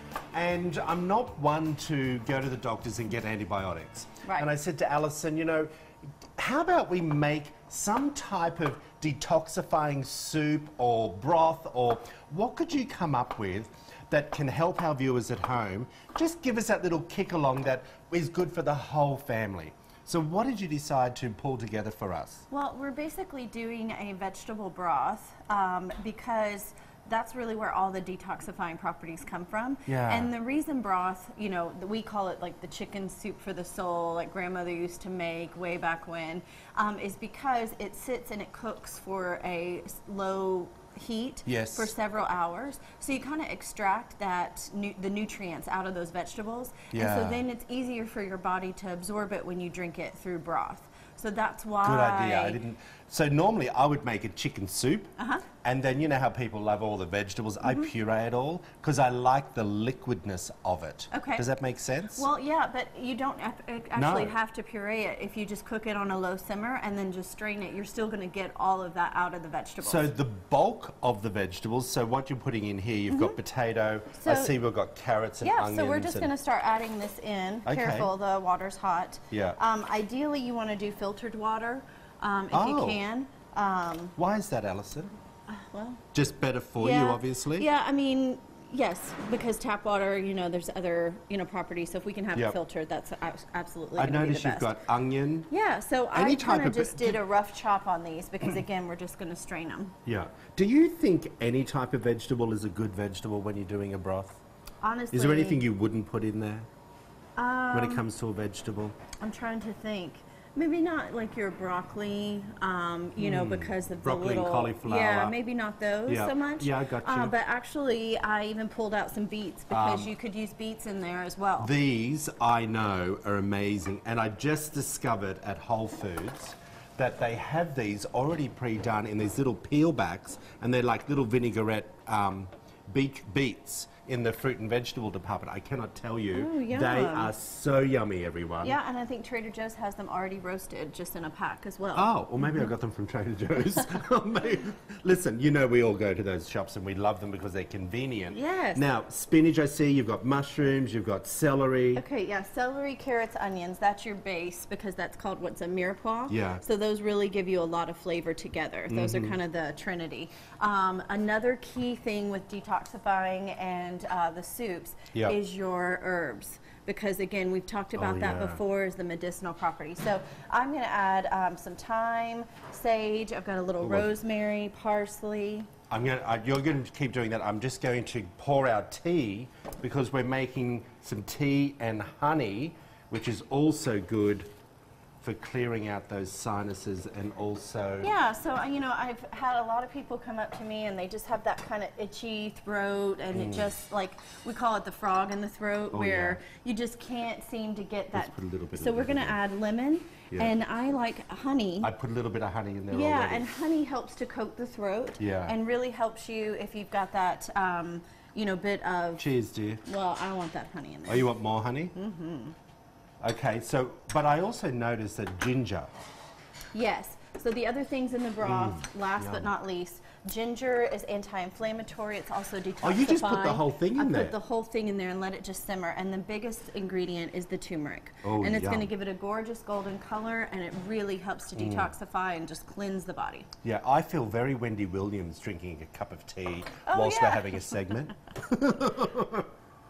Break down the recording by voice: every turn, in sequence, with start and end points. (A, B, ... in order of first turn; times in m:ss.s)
0:00.3-0:05.7 A
0:06.4-0:22.4 A
0:22.5-0:52.6 B
0:29.9-0:30.3 A
0:41.5-0:41.9 A
0:46.9-0:47.4 A
0:51.8-1:02.3 A
0:55.2-0:55.4 B
0:57.6-0:57.9 B
1:01.1-1:01.4 B
1:02.1-1:10.1 B
1:04.0-1:04.4 A
1:09.8-1:16.3 A
1:13.1-1:13.4 B
1:14.2-1:14.6 B
1:15.4-1:24.2 B
1:17.6-1:18.1 A
1:19.3-1:19.6 A
1:22.5-1:23.0 A
1:24.2-1:25.2 A
1:25.5-1:26.0 B
1:26.1-1:27.7 A
1:26.8-1:34.8 B
1:34.0-1:35.5 A
1:35.5-1:40.0 B
1:36.1-1:37.2 A
1:40.1-1:44.4 A
1:44.8-1:45.6 B
1:45.1-1:46.7 A
1:47.4-1:48.1 B
1:47.7-1:49.0 A
1:49.2-2:01.7 B
1:53.2-1:55.4 A
1:56.1-1:57.3 A
1:59.7-2:00.1 A
2:01.6-2:18.8 A
2:16.3-2:17.3 B
2:18.6-2:22.7 B
2:21.9-2:32.0 A
2:28.3-2:28.8 B
2:32.0-2:55.7 B
2:36.3-2:36.6 A
2:38.9-2:39.4 A
2:47.9-2:48.6 A
2:53.8-2:54.1 A
2:55.9-3:04.5 A
3:05.2-3:08.1 A
3:08.0-3:21.9 B
3:13.3-3:13.7 A
3:15.9-3:16.4 A
3:18.1-3:19.4 A
3:21.8-3:23.5 A
3:22.9-3:29.3 B
3:25.2-3:25.6 A
3:29.2-3:29.8 A
3:29.8-3:31.3 B
3:31.1-3:32.0 A
3:32.0-3:32.6 B
3:33.2-3:35.9 A
3:36.7-3:53.5 B
3:38.4-3:39.5 A
3:42.8-3:44.4 A
3:48.2-3:48.9 A
3:51.6-3:51.9 A
3:53.6-3:59.5 A
3:56.9-3:57.9 B